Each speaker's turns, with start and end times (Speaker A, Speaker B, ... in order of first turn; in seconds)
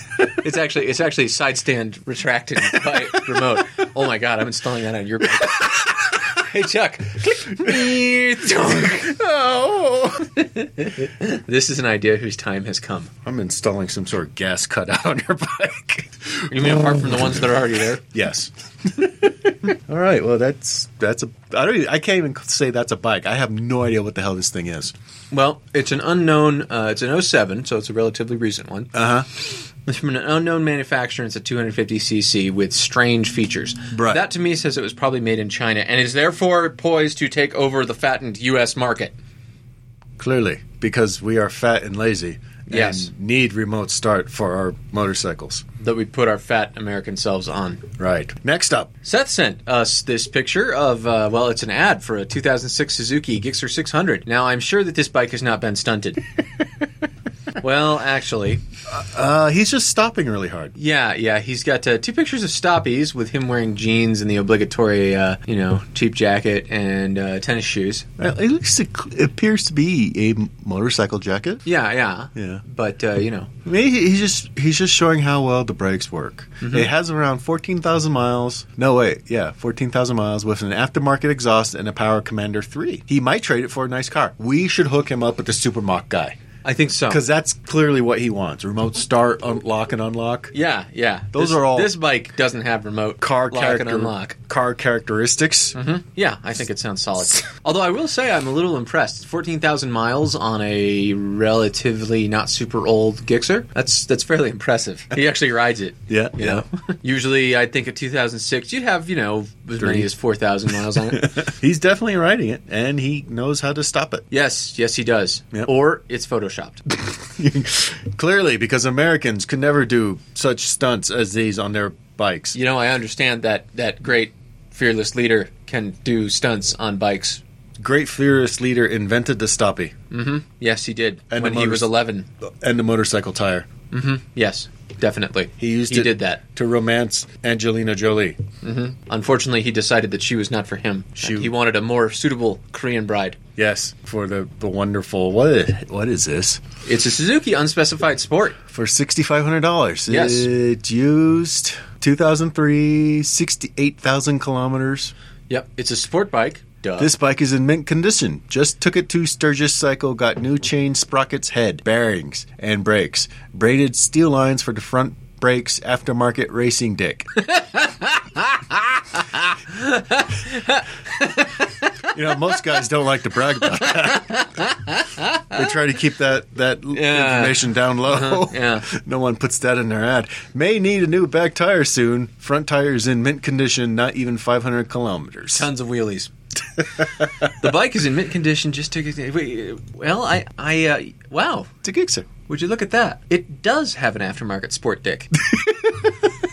Speaker A: 0.2-9.1, 10.3-13.1, 16.5-18.0, 25.3-39.1, 42.7-43.1, 45.8-47.9, 49.0-56.2, 57.6-58.6, 60.8-68.1, 71.7-73.5, 76.6-76.9, 86.6-87.2, 90.5-94.3, 95.7-111.3, 114.3-116.8, 122.5-127.4, 130.1-132.3, 133.9-136.4, 138.6-143.4, 146.8-148.6, 150.1-150.5, 155.5-157.1, 167.4-171.9, 173.7-175.7, 176.9-178.9, 185.5-186.3, 187.4-191.7, 192.5-195.3
Speaker B: 8.9-10.4, 13.2-24.9, 28.9-29.3, 33.9-34.2, 40.2-45.6, 48.0-48.9, 58.9-60.7, 68.2-71.6, 72.3-72.6, 73.6-86.4, 87.1-90.5, 91.3-91.9, 93.2-95.8, 106.1-106.6, 109.8-110.1, 111.0-114.2, 116.9-122.6, 127.8-129.9, 131.3-131.9, 132.5-133.7, 135.6-138.4, 141.2-141.5, 143.6-146.6, 148.7-155.1, 157.0-167.3, 172.1-174.4, 175.5-185.7, 191.8-192.3, 195.5-196.1